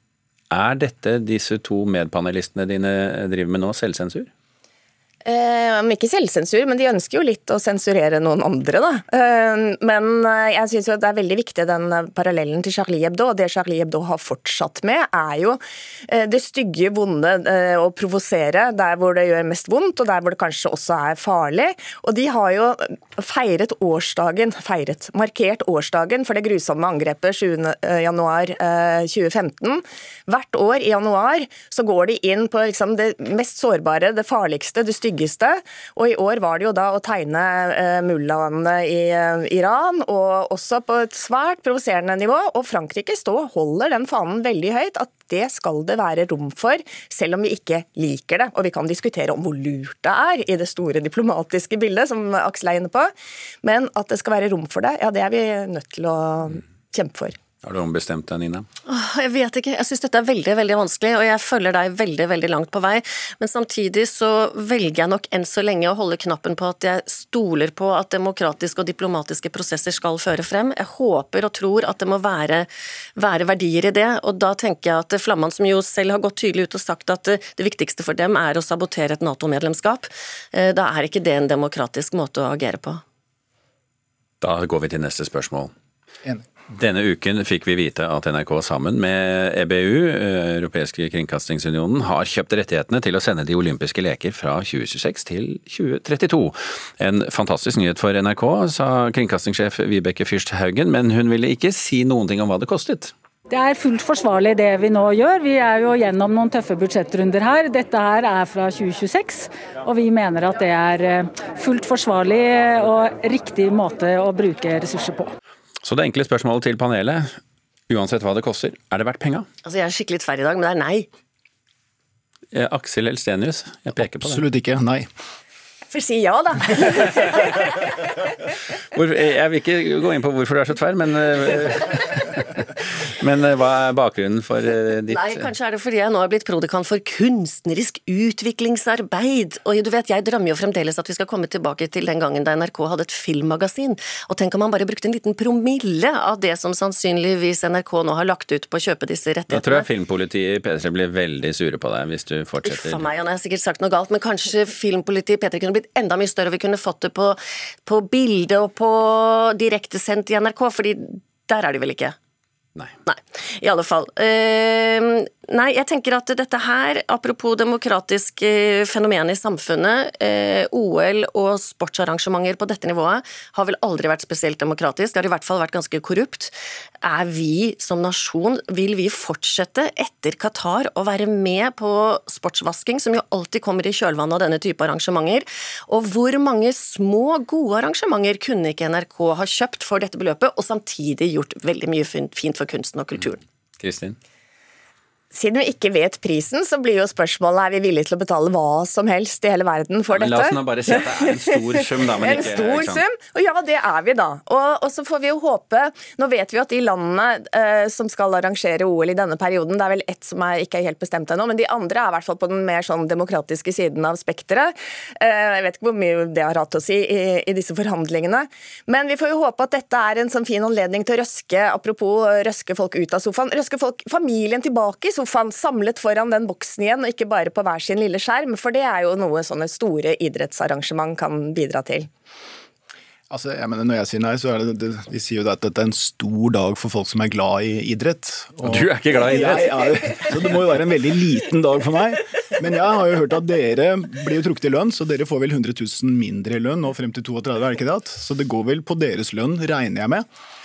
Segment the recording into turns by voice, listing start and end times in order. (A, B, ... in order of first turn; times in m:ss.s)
0:00.5-0:04.3 A
0:05.2-0:53.1 B
0:53.6-0:57.3 B
0:57.6-0:58.7 A
0:58.9-1:23.0 C
1:24.4-1:25.7 A
1:26.7-1:43.1 A
1:43.5-1:55.3 D
1:55.8-1:57.4 A
1:57.9-1:59.5 A
1:59.6-2:01.1 C
2:02.5-2:04.4 A
2:04.1-2:05.1 E
2:05.9-2:08.0 B
2:08.9-2:15.5 A
2:15.1-2:29.9 C
2:29.5-2:33.0 A
2:32.6-2:42.2 C
2:43.0-3:13.4 C
3:13.8-3:14.2 A
3:15.3-3:52.1 B
3:20.1-3:23.0 A
3:53.3-4:10.2 E
3:58.7-3:59.8 A